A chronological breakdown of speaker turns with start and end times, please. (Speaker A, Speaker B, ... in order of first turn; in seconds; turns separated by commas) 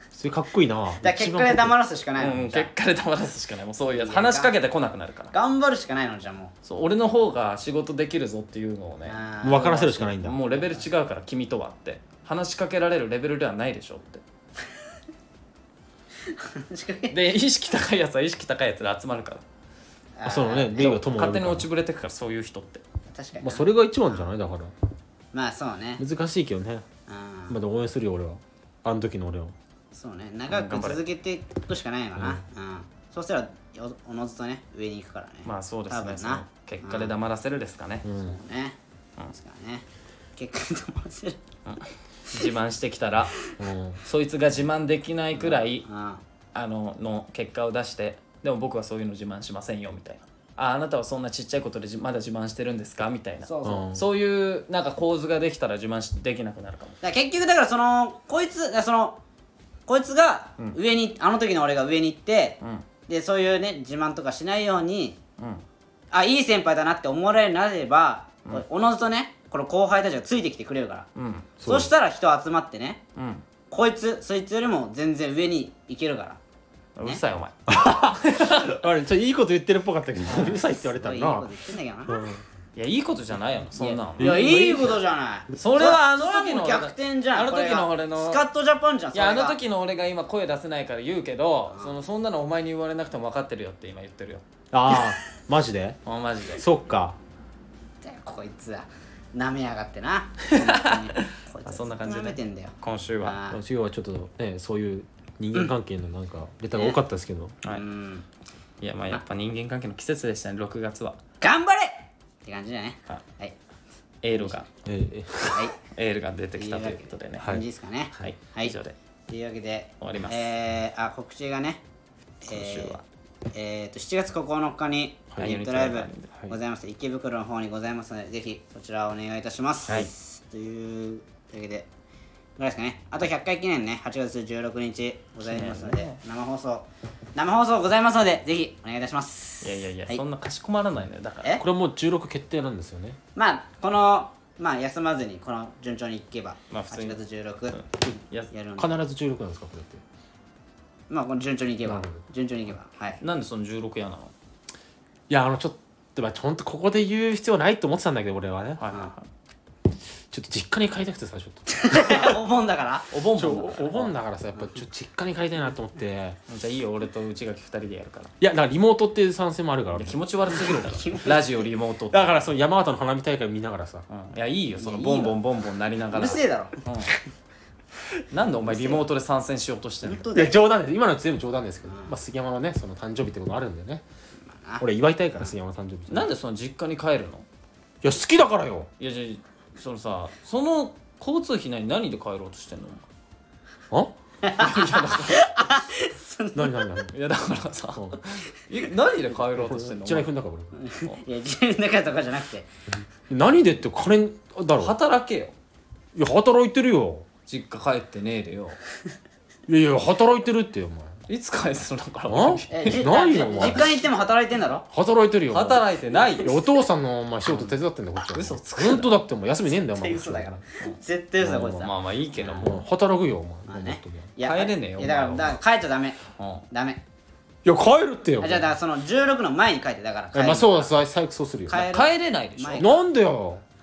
Speaker A: 0.1-1.7, Speaker B: 1.0-2.7, Speaker C: 2.2-5.3, Speaker B: 4.0-4.5, Speaker B: 5.3-6.5, Speaker C: 6.7-14.2, Speaker B: 9.1-9.9, Speaker A: 9.4-10.4, Speaker B: 16.3-17.2, Speaker C: 17.1-19.4, Speaker B: 20.2-21.0, Speaker A: 20.2-21.7, Speaker C: 20.8-22.8, Speaker B: 23.1-24.3, Speaker A: 23.4-24.7, Speaker B: 25.3-26.0, Speaker A: 26.0-26.9, Speaker B: 27.1-27.6, Speaker A: 27.5-29.6, Speaker B: 29.9-37.1, Speaker C: 30.5-31.0, Speaker A: 32.2-32.4, Speaker C: 35.5-38.1, Speaker A: 38.0-38.4, Speaker B: 38.2-38.8, Speaker B: 39.4-39.9, Speaker B: 40.4-41.4, Speaker C: 41.7-43.4, Speaker A: 43.6-44.0, Speaker C: 44.0-45.9, Speaker B: 45.3-46.2, Speaker C: 46.5-57.0, Speaker B: 53.5-53.9, Speaker A: 53.6-54.0, Speaker B: 57.0-59.2, Speaker B: 59.9-65.2, Speaker C: 65.4-65.6, Speaker B: 66.1-71.1, Speaker C: 71.2-71.5, Speaker A: 71.6-71.9, Speaker B: 71.6-73.0, Speaker C: 73.2-73.4, Speaker B: 73.7-76.4, Speaker C: 77.0-78.8, Speaker A: 77.7-81.5, Speaker B: 80.3-82.3, Speaker A: 82.1-82.4, Speaker C: 82.8-85.0, Speaker B: 83.8-89.6, Speaker A: 84.2-84.9, Speaker C: 85.5-88.4, Speaker C: 89.1-94.5, Speaker A: 94.7-96.0, Speaker C: 96.0-96.6, Speaker A: 96.5-97.2, Speaker B: 98.0-103.6, Speaker C: 100.5-103.4, Speaker A: 103.5-107.5, Speaker B: 107.7-108.2, Speaker C: 108.8-111.2, Speaker B: 111.4-113.6, Speaker C: 114.2-114.7, Speaker B: 114.3-114.6, Speaker A: 114.8-115.7, Speaker C: 115.9-117.5, Speaker B: 116.6-118.8, Speaker C: 118.2-118.9, Speaker B: 119.3-121.8, Speaker C: 120.0-120.5, Speaker B: 122.4-123.0, Speaker C: 122.5-123.0, Speaker B: 123.5-131.9, Speaker C: 125.4-126.3, Speaker B: 132.6-140.2, Speaker C: 135.4-136.2, Speaker C: 139.6-141.6, Speaker A: 141.6-143.2, Speaker B: 143.3-147.8, Speaker C: 146.7-148.5, Speaker B: 148.5-148.9, Speaker A: 148.8-150.0, Speaker B: 151.1-153.2, Speaker A: 151.9-152.2, Speaker C: 153.2-154.3, Speaker A: 155.3-158.8, Speaker C: 158.8-159.3, Speaker A: 160.3-162.3, Speaker B: 161.8-163.1, Speaker C: 163.1-164.2, Speaker A: 163.4-166.4, Speaker C: 166.5-168.3, Speaker A: 168.4-170.2, Speaker C: 169.9-172.5, Speaker B: 170.5-171.7, Speaker A: 172.1-174.1, Speaker C: 174.1-177.1, Speaker B: 174.8-175.4, Speaker B: 176.1-176.8, Speaker C: 178.3-180.2, Speaker B: 178.7-179.0, Speaker B: 180.0-180.6, Speaker A: 180.3-184.0, Speaker B: 181.9-182.1, Speaker B: 184.6-184.8, Speaker A: 184.8-186.3, Speaker C: 186.1-187.5, Speaker A: 188.0-188.9, Speaker C: 189.0-193.1, Speaker B: 194.4-197.0, Speaker C: 194.6-195.5, Speaker A: 196.6-197.1, Speaker C: 197.1-200.3, Speaker A: 199.6-200.7, Speaker B: 200.8-202.7, Speaker A: 203.3-204.9, Speaker C: 204.8-205.5, Speaker A: 206.2-207.3, Speaker C: 207.5-208.8, Speaker A: 209.7-211.2, Speaker C: 211.3-213.9, Speaker A: 212.3-213.9, Speaker B: 212.7-214.9, Speaker A: 214.9-215.8, Speaker C: 215.5-216.5, Speaker A: 216.4-220.6, Speaker B: 217.5-217.7, Speaker C: 218.3-219.2, Speaker B: 219.7-222.7, Speaker A: 221.4-221.9, Speaker C: 221.8-222.7, Speaker A: 222.5-224.3, Speaker B: 223.7-226.2, Speaker C: 224.4-225.6, Speaker C: 226.4-226.6, Speaker B: 226.7-227.0, Speaker A: 227.7-228.7, Speaker B: 228.4-230.9, Speaker A: 230.3-231.9, Speaker B: 231.7-233.1, Speaker C: 231.8-232.9, Speaker A: 232.8-233.6